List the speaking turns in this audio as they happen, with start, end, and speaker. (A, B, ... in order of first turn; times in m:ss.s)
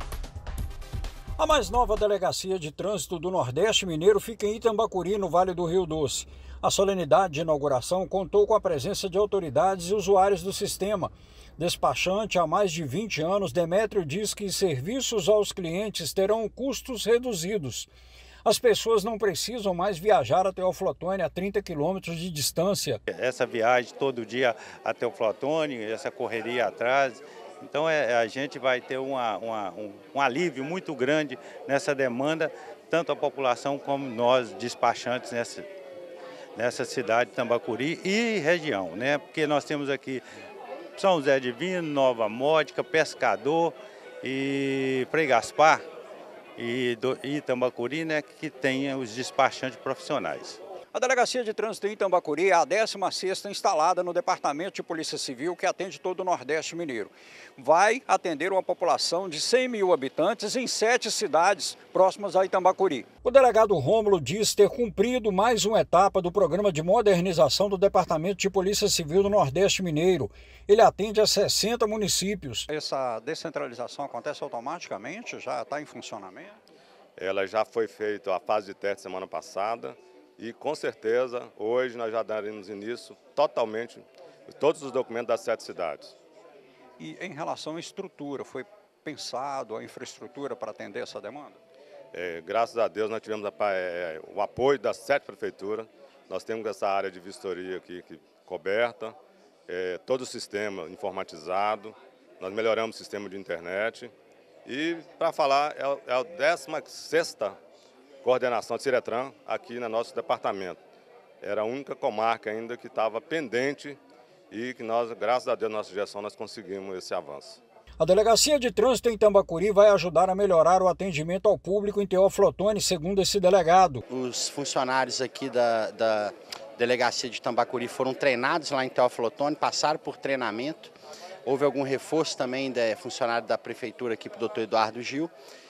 0:01.4-0:17.9 A
0:18.4-0:23.0 A
0:23.1-0:35.7 B
0:36.6-0:40.2 B
0:41.0-0:45.8 B
0:46.6-0:50.6 B
0:50.9-1:12.7 A
0:52.7-0:53.6 C
1:02.3-1:03.0 C
1:12.7-1:16.6 C
1:17.2-1:26.2 D
1:27.0-1:31.6 C
1:32.1-1:39.2 D
1:39.7-1:44.1 D
1:44.6-1:47.6 D
1:48.2-1:50.8 D
1:51.4-1:54.0 D
1:54.5-1:57.6 D
1:58.0-2:04.0 A
2:04.1-2:10.9 E
2:11.4-2:15.3 E